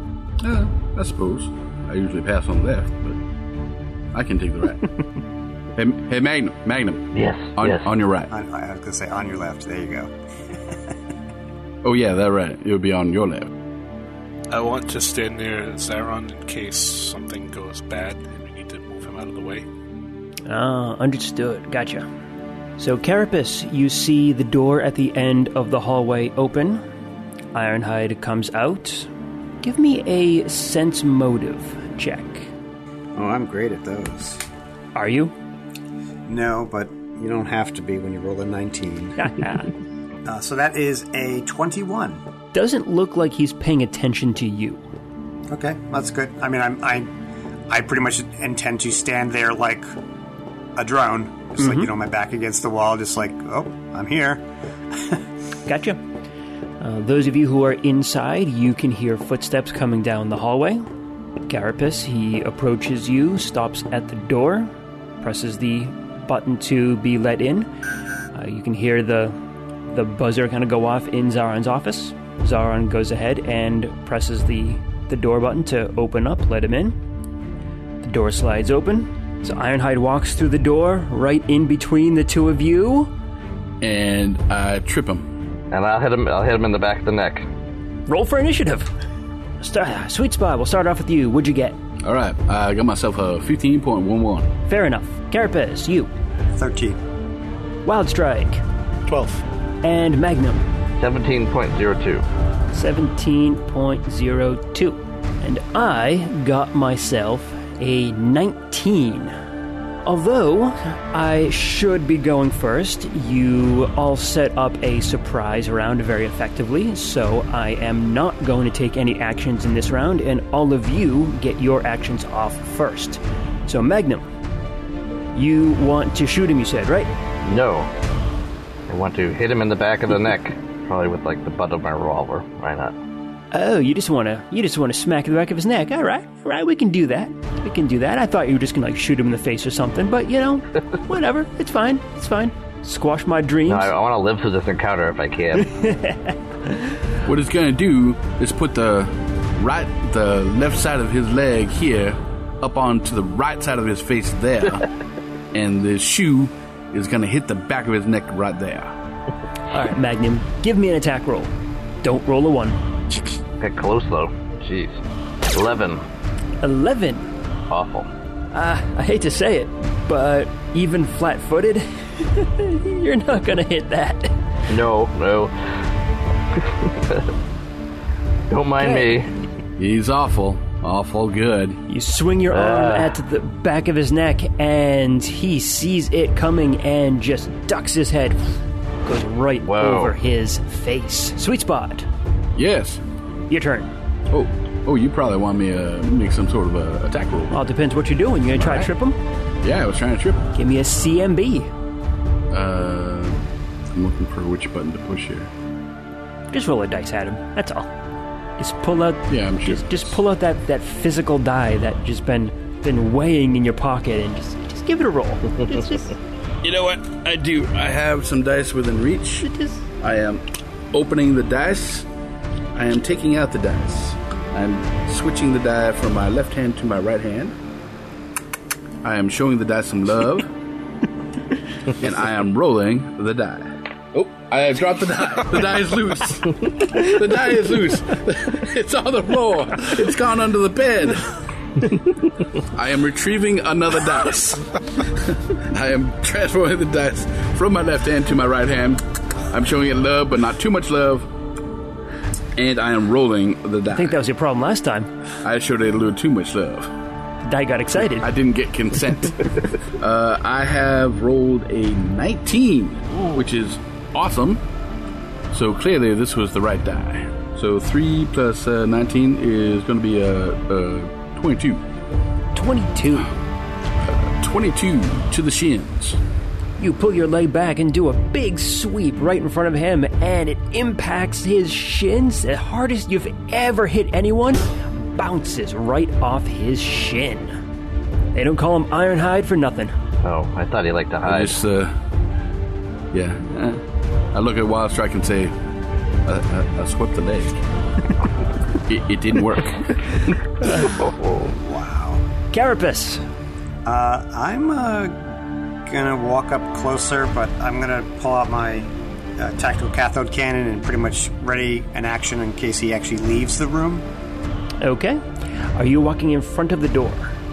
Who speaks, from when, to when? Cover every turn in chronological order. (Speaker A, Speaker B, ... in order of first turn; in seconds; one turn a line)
Speaker A: 0.4-3.2
Speaker A: 4.1-4.8
Speaker A: 5.8-8.3
Speaker B: 7.1-7.8
Speaker C: 8.3-10.1
Speaker A: 11.8-13.5
Speaker D: 14.5-19.6
Speaker E: 20.4-22.1
Speaker E: 22.8-26.8
Speaker E: 27.5-29.1
Speaker E: 29.6-32.5
Speaker C: 33.1-34.4
Speaker E: 34.9-35.3
Speaker C: 36.2-39.2
Speaker E: 39.2-39.7
Speaker C: 40.2-42.2
Speaker E: 42.5-44.8
Speaker C: 45.5-47.1
Speaker C: 47.7-49.9
Speaker C: 50.8-54.4
Speaker E: 51.6-51.9
Speaker C: 54.9-55.2
Speaker E: 55.6-56.0
Speaker E: 56.8-60.8
Speaker E: 61.5-67.7
Speaker E: 68.3-69.4
Speaker E: 69.9-77.0
Speaker E: 78.0-83.1
Speaker A: 83.8-85.2
Speaker B: 85.7-87.5
Speaker E: 88.1-88.9
Speaker E: 89.6-91.8
Speaker A: 92.0-94.5
Speaker E: 94.7-96.1
Speaker C: 96.5-97.0
Speaker E: 97.8-98.6
Speaker D: 99.1-99.4
Speaker E: 99.8-100.6
Speaker B: 101.0-102.2
Speaker E: 102.7-109.3
Speaker E: 110.0-124.3
Speaker E: 125.3-127.1
Speaker B: 127.4-127.9
Speaker B: 128.9-132.9
Speaker E: 133.5-143.9
Speaker B: 143.7-145.7
Speaker E: 145.6-146.3
Speaker A: 147.2-154.8
Speaker A: 155.5-158.9
Speaker E: 159.7-161.5
Speaker E: 162.0-162.8
Speaker B: 163.6-165.0
Speaker B: 165.5-166.0
Speaker E: 166.6-167.3
Speaker B: 167.7-168.1
Speaker E: 168.5-174.3
Speaker B: 174.7-175.9
Speaker B: 176.5-177.3
Speaker B: 178.5-179.3
Speaker E: 178.8-179.2
Speaker A: 179.8-181.8
Speaker E: 181.9-192.1
Speaker B: 182.5-183.2
Speaker B: 189.6-190.2
Speaker A: 192.6-193.0
Speaker E: 193.5-193.9
Speaker A: 194.3-197.7
Speaker E: 197.5-199.2
Speaker A: 198.6-198.9
Speaker A: 199.6-200.4
Speaker E: 200.5-201.7
Speaker A: 202.5-203.4
Speaker A: 203.9-205.5
Speaker E: 206.5-207.9
Speaker E: 208.6-216.2
Speaker A: 209.3-210.1
Speaker A: 216.6-219.5
Speaker E: 219.4-219.8
Speaker A: 220.0-222.1
Speaker A: 222.7-227.6
Speaker A: 229.0-230.5
Speaker A: 232.0-241.3
Speaker A: 242.6-251.3
Speaker A: 252.6-254.2
Speaker E: 253.9-255.1
Speaker A: 255.4-256.9
Speaker E: 257.4-258.3
Speaker A: 258.0-264.6
Speaker A: 265.5-271.8
Speaker E: 272.5-273.3
Speaker A: 274.0-276.2
Speaker E: 276.8-287.5
Speaker E: 288.3-289.9
Speaker B: 290.2-291.6
Speaker A: 291.2-291.9
Speaker A: 293.1-295.5
Speaker A: 296.2-297.6
Speaker A: 298.9-299.9
Speaker E: 300.6-300.9
Speaker B: 300.8-301.5
Speaker C: 301.4-302.2
Speaker E: 302.5-303.2
Speaker C: 303.8-314.1
Speaker E: 314.8-315.2
Speaker E: 315.7-317.4